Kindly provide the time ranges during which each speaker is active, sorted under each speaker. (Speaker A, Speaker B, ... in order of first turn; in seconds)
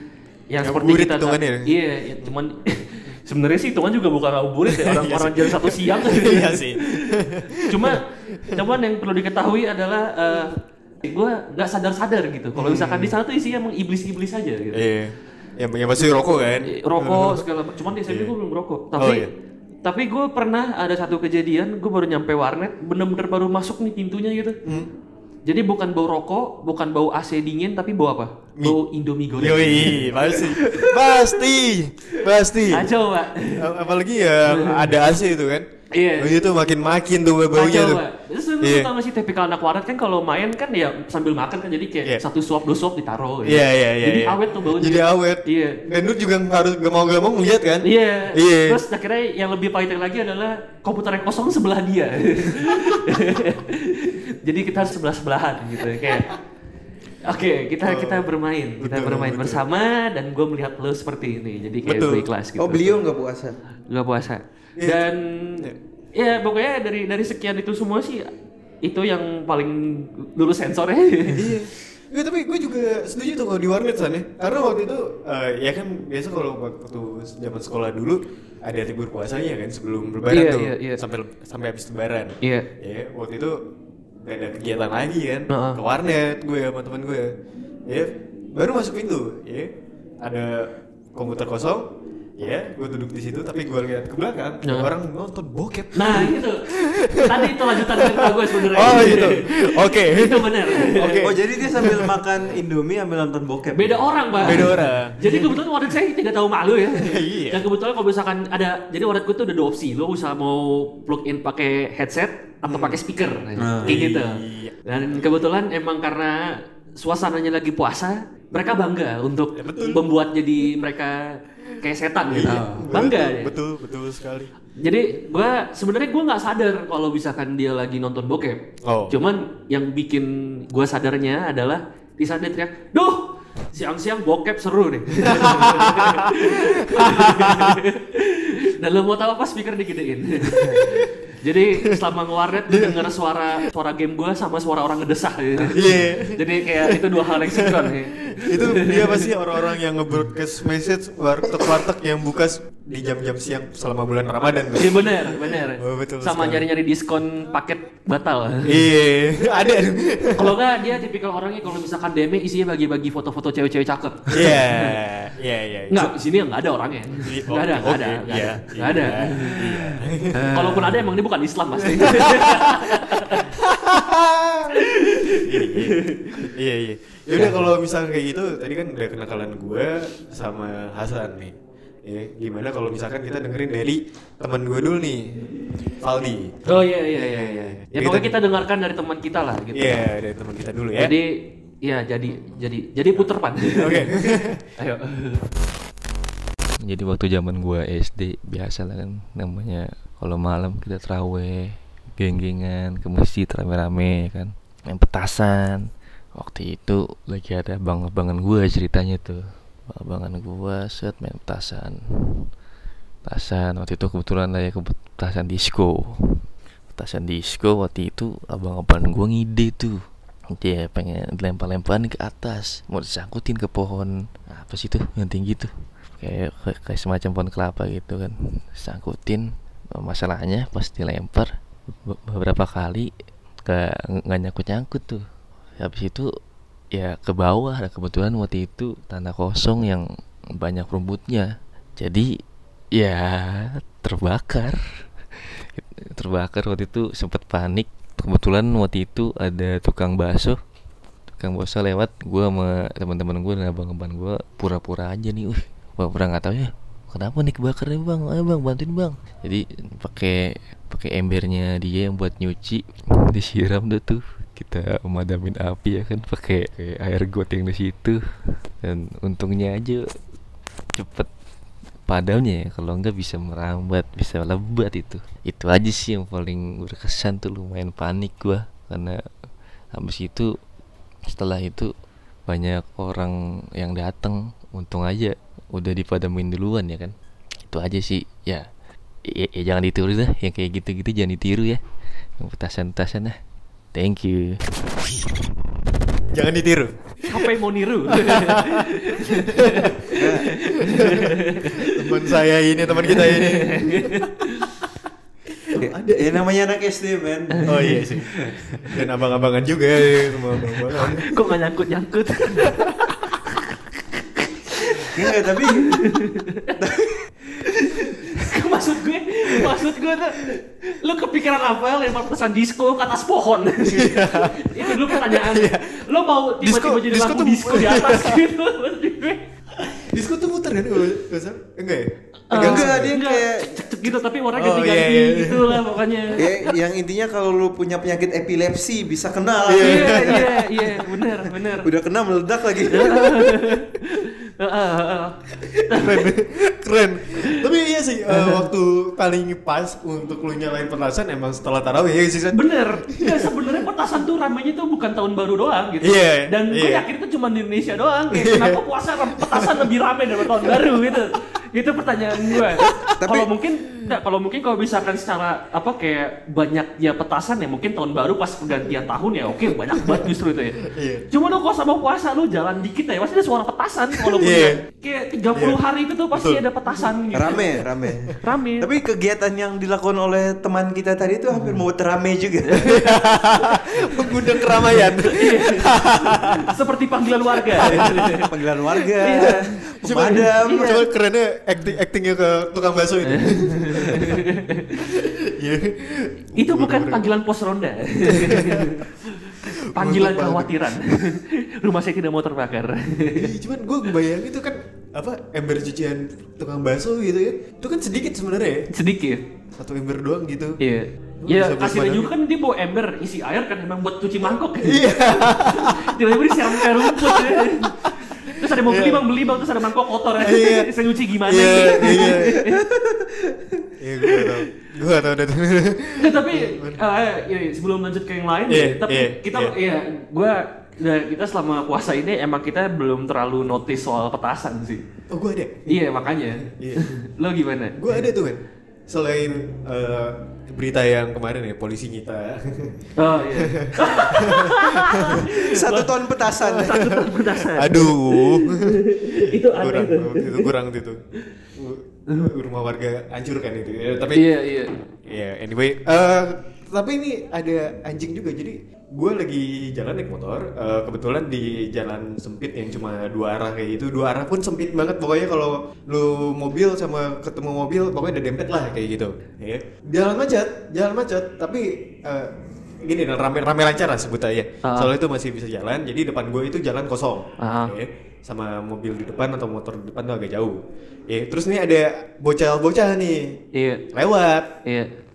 Speaker A: 0.5-14.8, 16.6-19.3, 19.8-24.6, 25.4-31.2, 32.7-33.7, 34.5-34.9, 35.9-36.3, 37.5-45.8, 47.8-56.3, 57.2-63.0, 63.9-68.3, 68.8-71.5, 80.3-81.0, 82.4-82.7, 85.5-85.8, 94.6-94.9, 95.9-101.3, 103.7-123.5, 124.8-149.3, 154.8-158.8, 160.3-165.0, 165.9-173.6, 174.7-176.5, 177.3-177.6, 186.6-190.1, 191.0-194.2, 194.8-195.4, 297.2-302.2, 303.0-304.7, 307.6-308.1, 310.6-313.6, 314.4-316.8, 317.6-329.4, 332.5-336.7, 339.8-341.9, 342.9-346.3, 348.3-348.6, 352.5-377.6, 378.4-378.9, 383.6-388.5, 389.2-390.9, 393.2-395.0, 396.6-399.1, 399.7-403.5, 408.9-409.4, 410.8-422.8, 426.2-435.0, 435.9-438.0, 443.2-446.1, 446.6-450.7, 454.3-454.9, 474.8-475.1, 477.6-477.9, 483.7-484.0, 484.8-485.1
Speaker B: 0.6-2.3, 4.6-8.7, 12.5-13.2, 14.7-17.4, 18.0-18.3, 18.9-19.3, 24.6-24.9, 29.4-32.9, 33.6-38.0, 38.6-38.9, 43.4-48.8, 52.6-53.2, 55.9-56.4, 57.8-59.6, 61.8-62.3, 64.8-65.0, 71.3-83.7, 84.2-87.3, 87.9-89.7, 90.2-91.9, 92.4-102.2, 104.4-105.5, 106.9-107.7, 112.7-113.0, 113.8-115.2, 119.5-120.0, 122.2-124.5, 128.8-129.2, 135.2-137.8, 140.5-141.1, 142.7-143.1, 145.6-156.7, 158.6-160.6, 164.3-166.1, 167.2-171.1, 171.8-185.5, 186.0-188.4, 189.7-191.1, 193.8-194.6, 296.3-297.5, 298.1-300.2, 300.9-304.3, 305.7-306.4, 307.6-311.4, 312.6-313.1, 323.8-326.0, 326.6-328.4, 329.8-333.1, 334.5-335.9, 339.6-341.5, 343.1-343.8, 345.7-353.8, 356.0-357.1, 358.3-358.8, 359.3-361.2, 362.3-363.2, 369.9-370.3, 370.8-371.2, 374.1-374.8, 375.5-375.8, 376.3-377.0, 377.8-378.3, 381.5-381.8, 382.7-386.7, 387.6-388.5, 389.3-397.2, 398.2-401.1, 403.3-408.9, 409.8-410.8, 411.4-412.3, 414.8-419.6, 420.4-422.7, 424.0-427.0, 428.7-429.7, 435.3-436.0, 436.6-437.1, 437.9-446.0, 446.7-451.2, 451.8-454.5, 455.3-472.5, 473.0-483.6, 484.1-484.8
Speaker C: 62.6-63.6, 101.2-104.8, 113.6-114.0, 122.5-122.8, 300.1-300.5, 305.7-308.0, 315.1-316.0, 316.8-317.1, 332.5-333.8, 336.4-340.5, 341.8-343.3, 363.2-363.5, 377.3-383.2, 387.8-391.0, 422.9-423.6, 445.4-447.1
Speaker D: 196.8-212.5, 213.2-220.0, 220.5-231.5, 232.1-233.1, 233.6-235.2, 235.8-236.3, 236.9-242.3, 242.9-244.8, 245.7-250.6, 251.4-268.2, 268.8-270.0, 270.9-271.3, 272.1-279.2, 279.9-280.5, 281.3-281.9, 282.5-287.1, 287.6-288.7, 289.3-291.8, 292.4-293.4, 293.9-294.6